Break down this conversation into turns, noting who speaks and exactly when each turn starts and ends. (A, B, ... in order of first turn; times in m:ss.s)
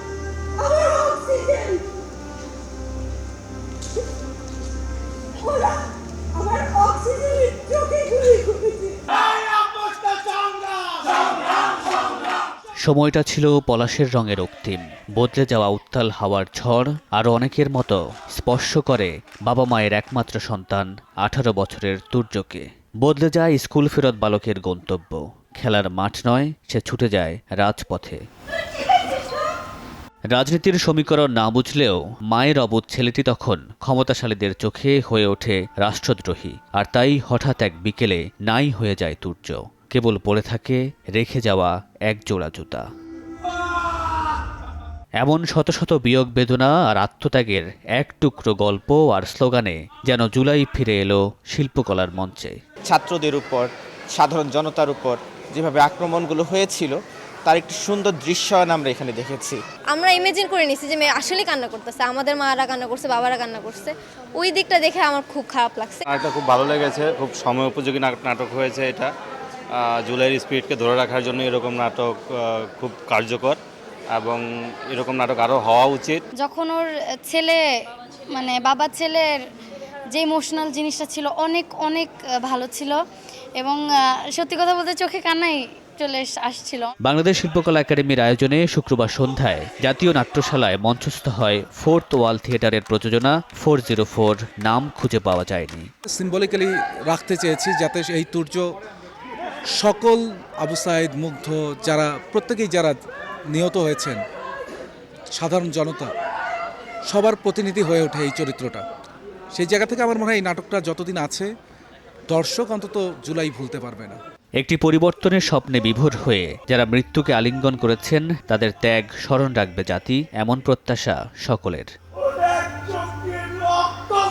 0:00.7-0:01.7 A
0:06.6-0:07.4 A
0:12.8-0:28.2 B
0:30.3-0:42.8 B
0:45.2-0:52.6 B
0:52.8-0:59.6 C
0:59.9-1:06.0 A
1:06.1-1:09.1 D
1:09.8-1:13.6 D
1:14.1-1:16.2 D
1:16.4-1:17.6 E
1:18.3-1:19.4 E
1:20.1-1:23.0 E
1:23.6-1:26.9 E
1:27.0-1:35.9 B
1:36.1-1:38.7 F
1:39.8-1:43.0 F
1:43.5-1:44.2 F
1:45.4-1:46.1 F
1:47.1-1:48.8 F
1:49.6-1:51.5 F
1:52.3-1:54.2 F
1:54.6-2:01.9 B